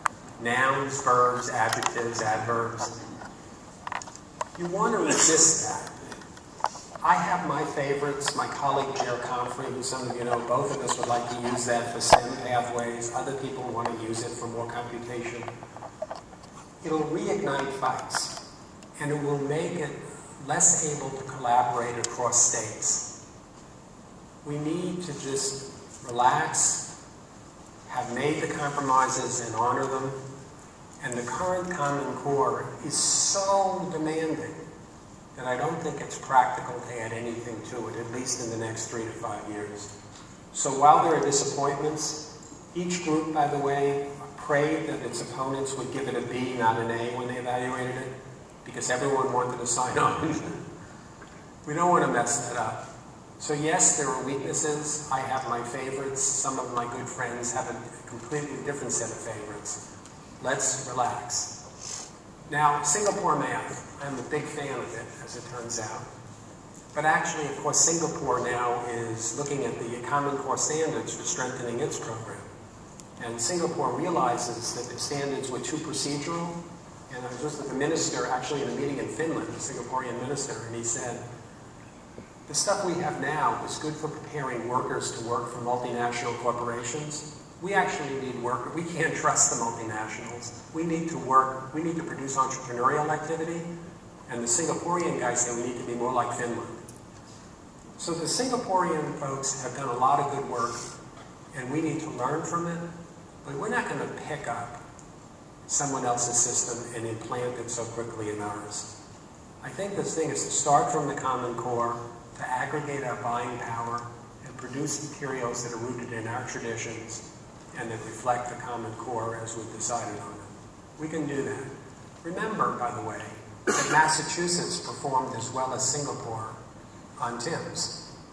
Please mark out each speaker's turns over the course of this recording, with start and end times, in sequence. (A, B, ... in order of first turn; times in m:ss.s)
0:00.4-0:02.9 A
0:04.6-0:05.9 A
0:07.0-0:15.5 A
0:16.8-0:18.3 A
0:19.0-0:23.1 A
0:24.4-0:26.8 A
0:27.9-0:30.2 A
0:31.0-0:34.6 A
0:35.4-0:39.9 A
0:40.5-0:42.2 A
0:42.7-0:48.1 A
0:48.6-0:50.6 A
0:51.6-0:52.8 A
0:53.4-0:59.8 A
1:00.4-1:01.5 A
1:02.5-1:06.1 A
1:06.9-1:12.4 A
1:13.2-1:16.6 A
1:17.1-1:21.2 A
1:22.5-1:33.7 A
1:34.3-1:36.8 A
1:38.0-1:40.8 A
1:41.5-1:42.8 A
1:43.4-1:44.8 A
1:45.7-1:48.9 A
1:49.6-2:01.7 A
2:02.2-2:06.6 A
2:07.2-2:07.9 A